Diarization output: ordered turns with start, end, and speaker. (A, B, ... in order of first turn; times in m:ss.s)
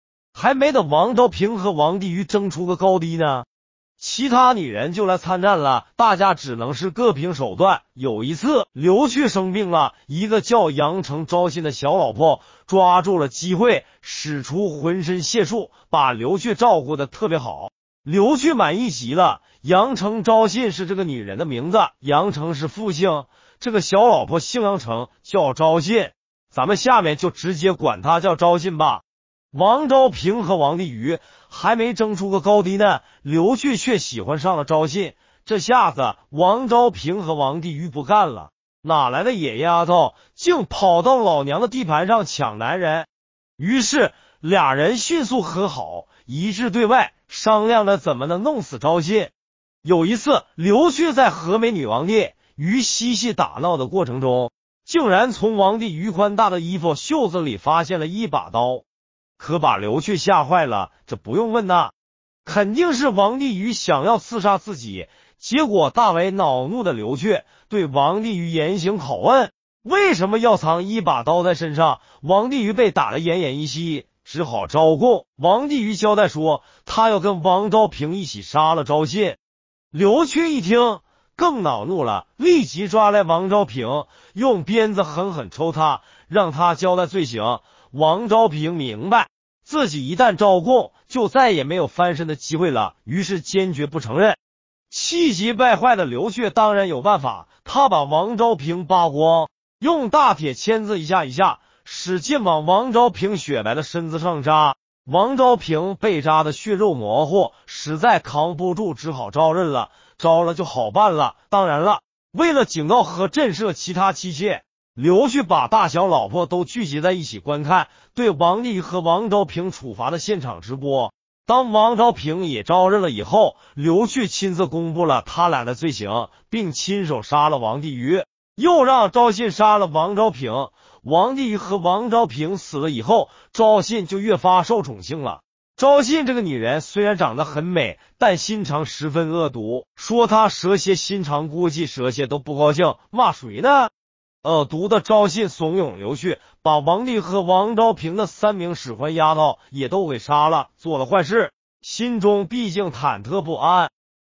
0:00.3-0:03.4 A
0:04.0-0:49.3 A
0:49.8-0:58.8 A
0:59.4-1:01.9 A
1:02.4-1:19.4 A
1:19.9-1:34.4 A
1:34.9-2:23.9 A
2:24.4-2:33.9 A